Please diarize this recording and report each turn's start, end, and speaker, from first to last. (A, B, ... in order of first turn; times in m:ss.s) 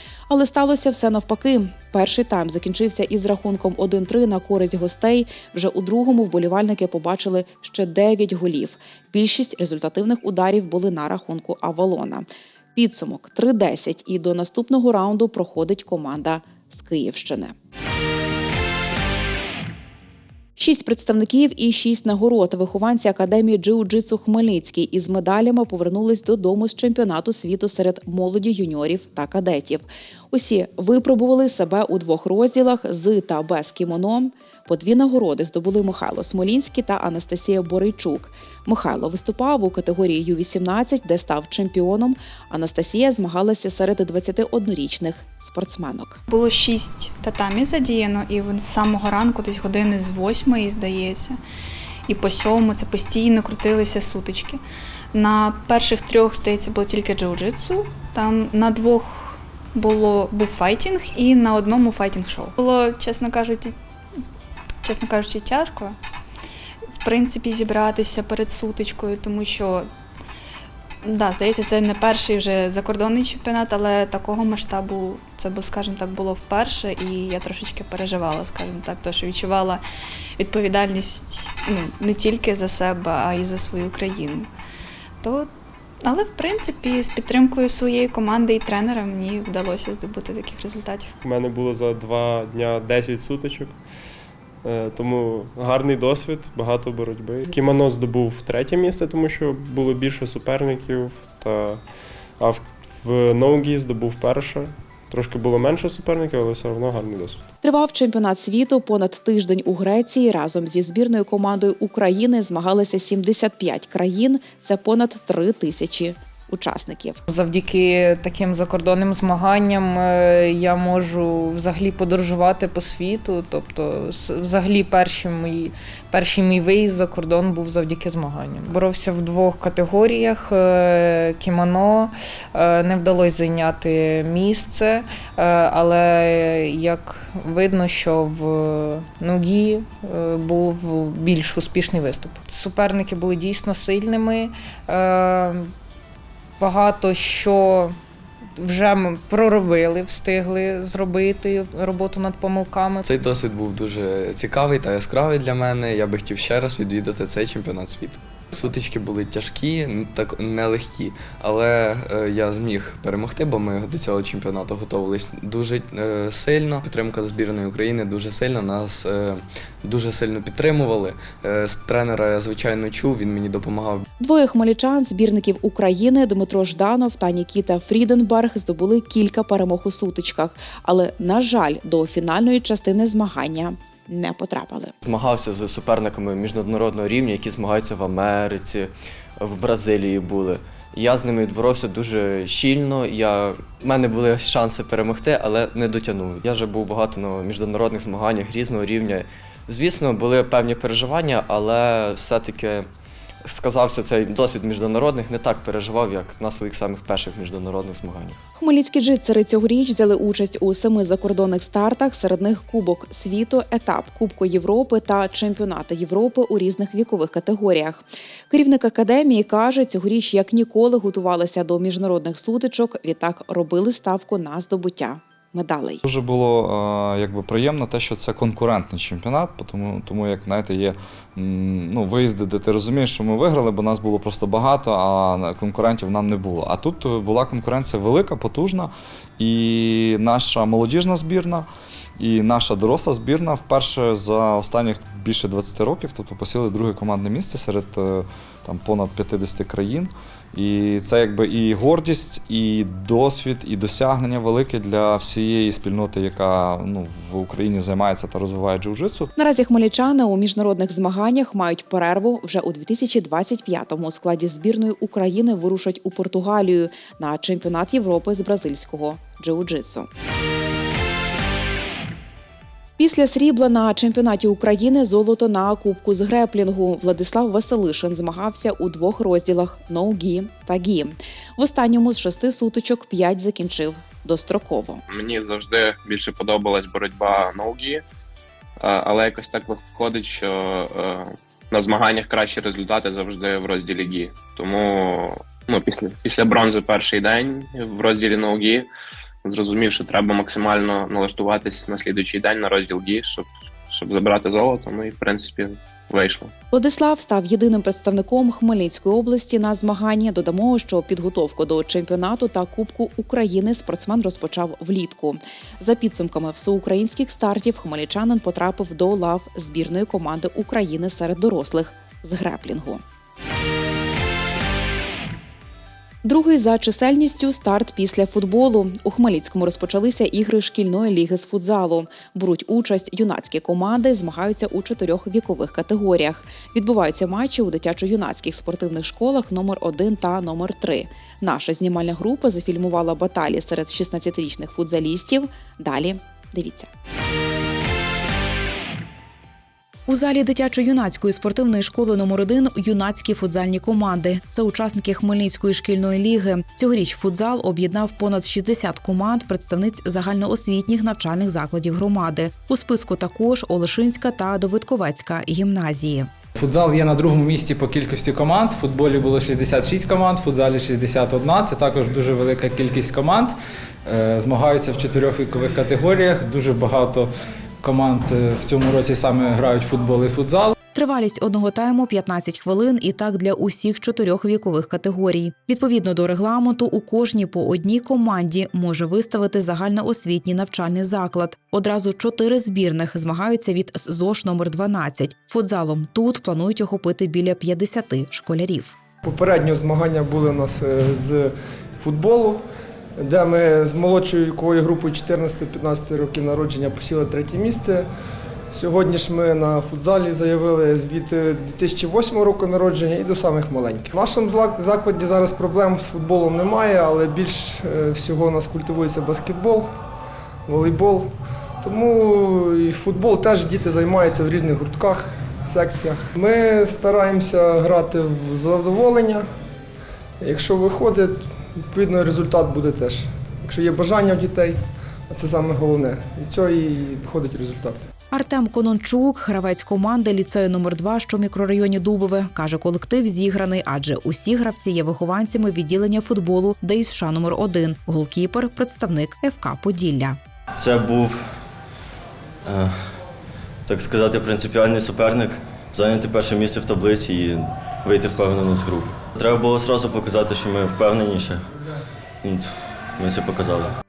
0:00.3-0:17.6 A
0:20.6-0:46.2 A
0:46.3-0:51.4 B
0:52.1-0:54.6 B
0:55.1-1:03.8 B
1:04.8-1:06.0 B
1:07.0-1:09.9 B
1:11.0-1:19.8 B
1:20.4-1:24.5 B
1:25.2-1:25.5 B
1:26.0-1:31.1 B
1:31.2-1:33.9 C
1:34.6-1:47.5 C
1:47.6-1:57.2 A
1:57.3-2:25.7 D
2:26.6-2:28.0 D
2:28.6-2:33.0 D
2:33.0-2:54.0 E
2:54.2-3:04.9 A
3:05.0-3:22.9 F
3:23.4-3:28.4 F
3:28.6-3:46.0 A
3:46.1-4:01.7 G
4:02.2-4:19.3 G
4:19.4-4:30.1 A
4:33.0-4:45.0 A
4:45.1-4:48.0 H
4:48.8-4:58.9 H
4:59.4-5:06.5 H
5:06.7-5:23.0 A
5:26.2-5:46.9 A
5:50.1-6:06.3 A
6:06.6-6:17.3 I
6:17.8-6:20.8 I
6:20.9-6:39.0 A
6:39.2-6:42.6 J
6:43.2-6:48.1 J
6:48.7-6:59.9 J
7:00.7-7:01.3 J
7:01.8-7:09.5 J
7:10.4-7:14.8 J
7:15.3-7:18.0 J
7:18.3-7:30.4 A
7:30.8-7:31.4 K
7:32.7-7:32.9 K
7:33.9-7:41.6 K
7:43.2-7:43.9 K